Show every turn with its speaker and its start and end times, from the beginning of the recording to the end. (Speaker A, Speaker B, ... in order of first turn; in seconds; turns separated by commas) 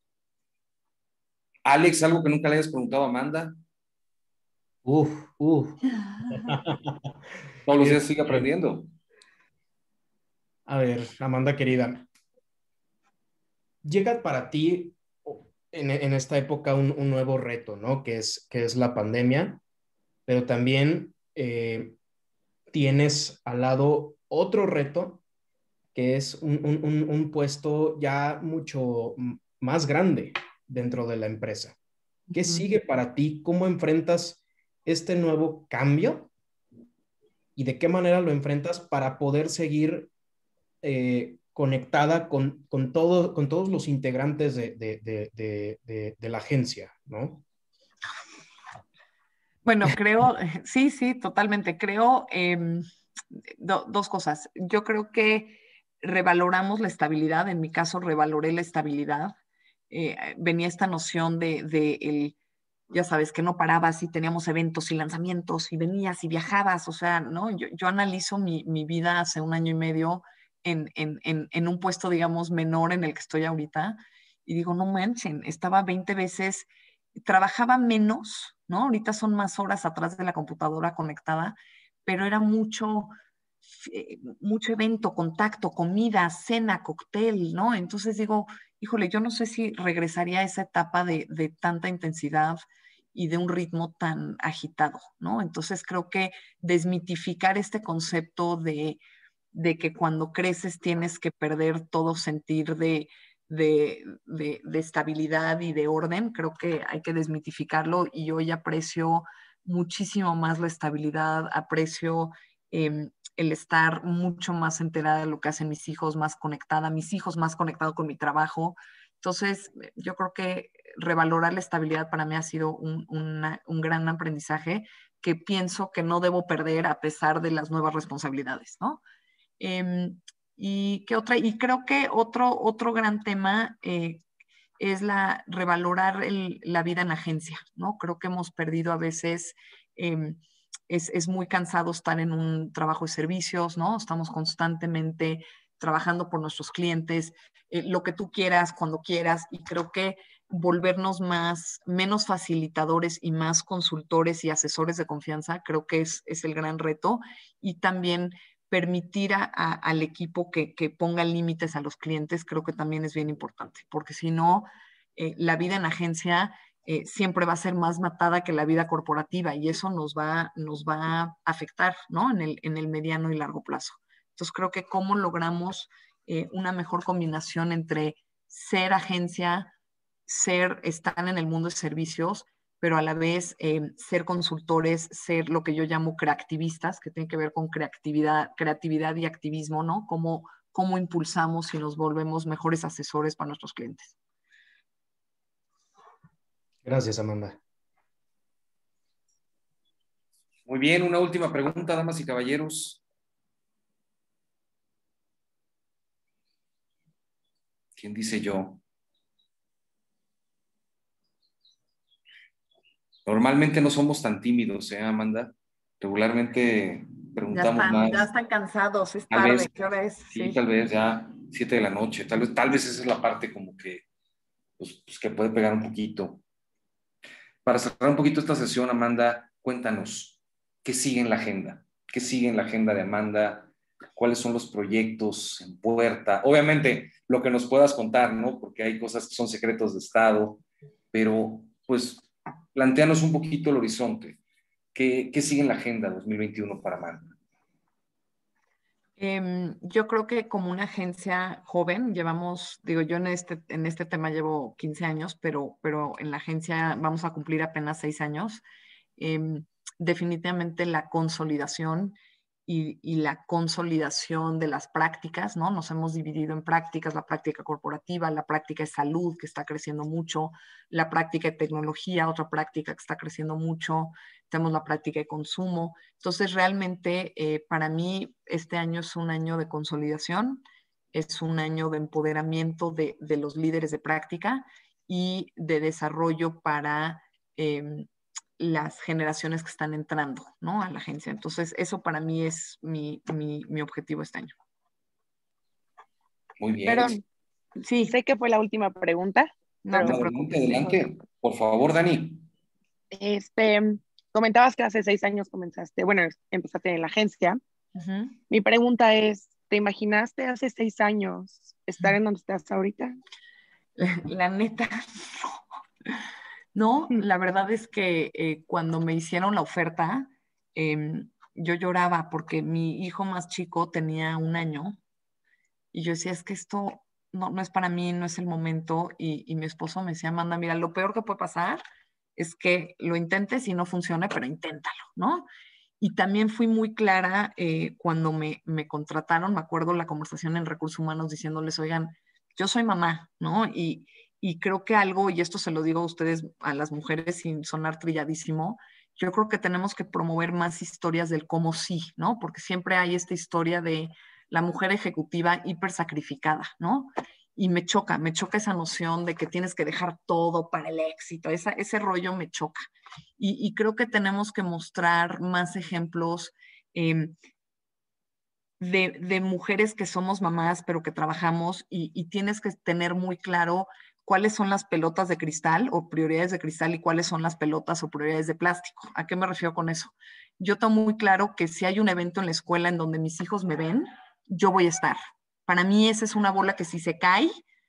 Speaker A: 1.6-3.6, Speaker B: 4.9-7.1, Speaker A: 7.7-8.9, Speaker B: 7.8-8.5, Speaker B: 10.7-12.1, Speaker B: 13.8-19.6, Speaker B: 20.3-22.0, Speaker B: 22.7-25.2, Speaker B: 25.9-31.8, Speaker C: 32.3-32.7, Speaker B: 32.4-36.3, Speaker B: 37.6-40.1, Speaker B: 40.8-47.4, Speaker C: 49.6-59.4, Speaker C: 59.9-62.4, Speaker C: 62.9-83.1, Speaker C: 83.7-99.0, Speaker C: 99.5-129.0, Speaker C: 129.6-134.2, Speaker C: 134.8-179.7, Speaker C: 180.3-194.2, Speaker B: 196.8-197.6, Speaker A: 200.7-203.0, Speaker A: 208.0-208.8, Speaker A: 213.3-218.2, Speaker C: 217.5-220.6, Speaker A: 219.3-219.7, Speaker A: 220.3-224.0, Speaker A: 224.8-226.4, Speaker A: 227.7-244.4, Speaker A: 244.9-247.2, Speaker C: 249.2-258.6, Speaker C: 259.2-288.1, Speaker C: 288.6-294.6, Speaker A: 296.6-297.2, Speaker D: 296.9-297.2, Speaker C: 297.8-298.1, Speaker D: 298.1-300.2, Speaker C: 299.9-301.0, Speaker A: 300.0-302.5, Speaker D: 303.1-307.6, Speaker C: 308.0-308.4, Speaker D: 308.5-313.2, Speaker C: 314.0-315.6, Speaker C: 316.7-325.0, Speaker C: 325.9-331.8, Speaker C: 332.4-335.5, Speaker C: 336.0-362.9, Speaker C: 363.4-367.4, Speaker C: 368.8-387.6